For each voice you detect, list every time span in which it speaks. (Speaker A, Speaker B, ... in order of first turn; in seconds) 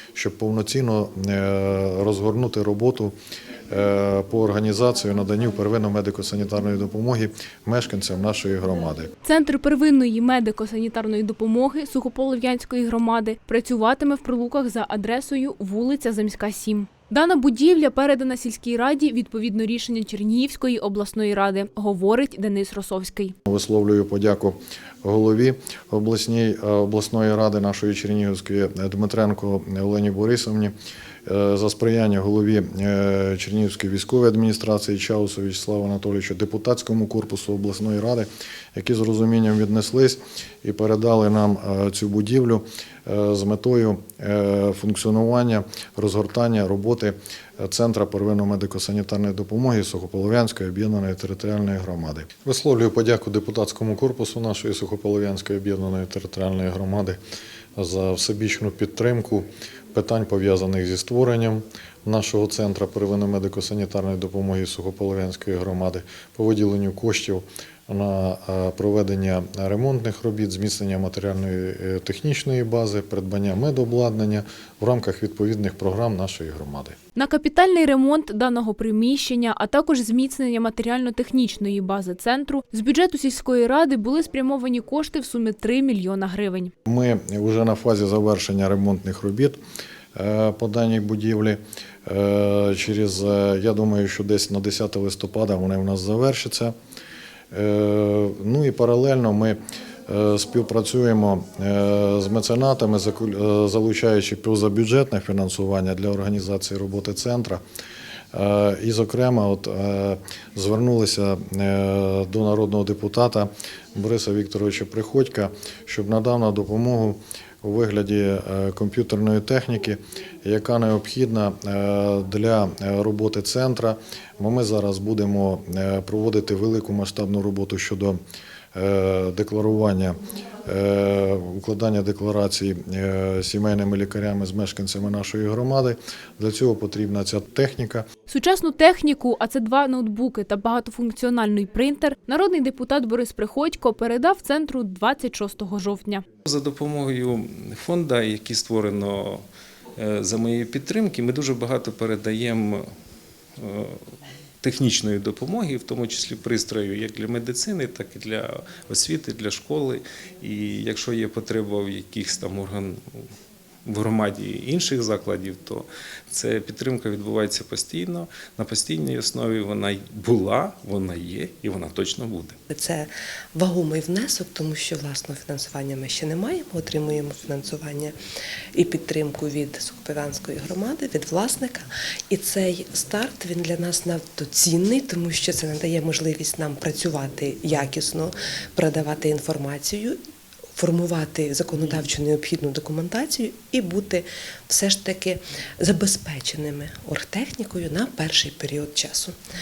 Speaker A: 0.1-3.1, 3.7-9.1, 23.5-30.7, 31.2-57.2, 57.8-77.0, 86.9-89.6, 90.1-96.7, 97.5-107.6, 108.3-128.2, 128.7-130.1, 130.7-138.1
Speaker B: 9.2-23.3, 77.2-86.7, 138.3-146.2
Speaker C: 146.5-149.4, 150.0-152.8, 153.6-154.0, 154.6-163.2, 163.8-172.6
Speaker D: 172.7-178.1, 178.7-190.2, 190.7-199.3